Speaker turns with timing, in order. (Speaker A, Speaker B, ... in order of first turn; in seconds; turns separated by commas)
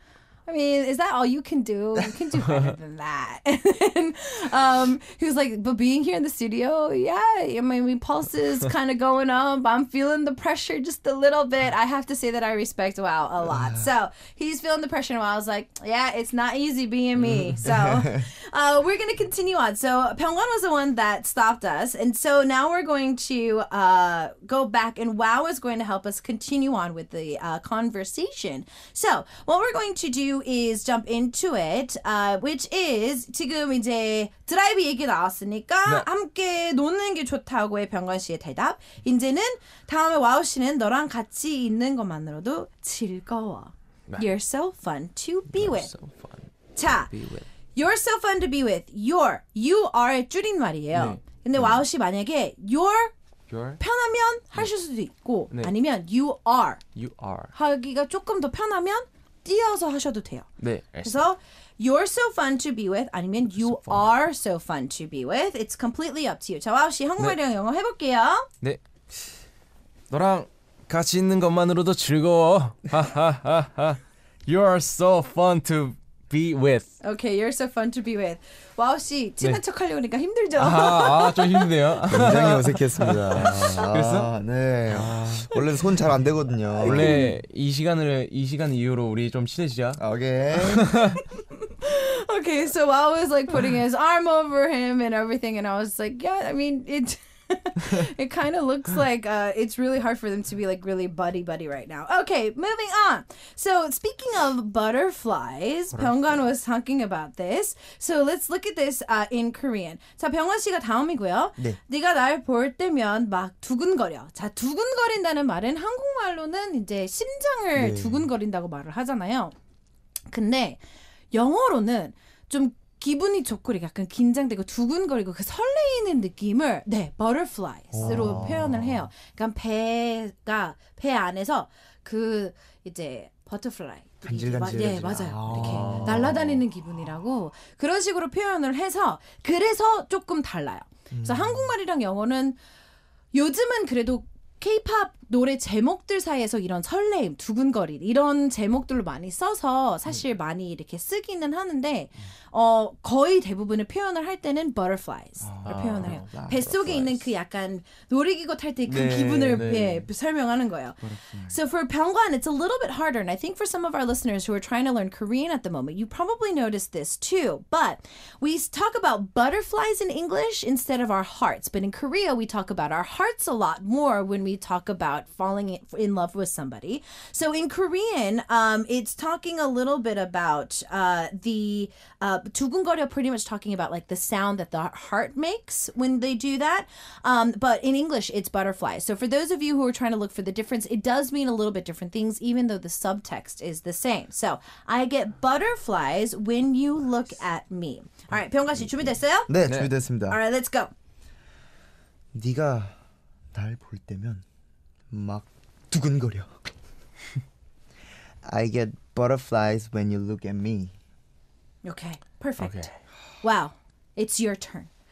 Speaker A: 0.5-45.9, Speaker B: 2.5-2.7, Speaker C: 13.5-13.9, Speaker B: 17.2-17.6, Speaker C: 17.6-18.3, Speaker B: 45.5-47.5, Speaker A: 46.7-47.1, Speaker A: 47.8-53.1, Speaker B: 50.9-51.2, Speaker B: 53.5-53.8, Speaker A: 53.8-56.8, Speaker B: 56.9-57.5, Speaker A: 57.5-60.5, Speaker B: 60.6-61.2, Speaker A: 61.0-68.5, Speaker B: 63.6-64.0, Speaker B: 70.1-77.0, Speaker A: 77.0-81.7, Speaker B: 80.5-84.3, Speaker C: 82.1-87.2, Speaker B: 84.9-85.5, Speaker A: 86.8-87.3, Speaker B: 86.8-90.0, Speaker C: 90.0-90.9, Speaker B: 90.5-91.2, Speaker A: 91.5-119.5, Speaker B: 105.9-106.3, Speaker C: 117.7-118.3, Speaker A: 120.3-120.8, Speaker A: 121.3-142.6, Speaker C: 127.9-128.9, Speaker B: 128.0-128.9, Speaker C: 134.2-136.6, Speaker B: 135.4-136.3, Speaker C: 141.1-141.7, Speaker A: 143.3-199.5, Speaker C: 155.4-157.0, Speaker B: 155.6-157.2, Speaker C: 158.9-159.9, Speaker B: 159.6-160.0, Speaker C: 161.0-161.6, Speaker C: 199.5-200.4, Speaker B: 199.7-199.9, Speaker A: 200.3-200.9, Speaker C: 202.3-203.0, Speaker C: 203.5-204.4, Speaker C: 205.1-206.6, Speaker C: 208.4-210.9, Speaker A: 211.8-212.9, Speaker B: 212.6-212.9, Speaker A: 213.4-214.9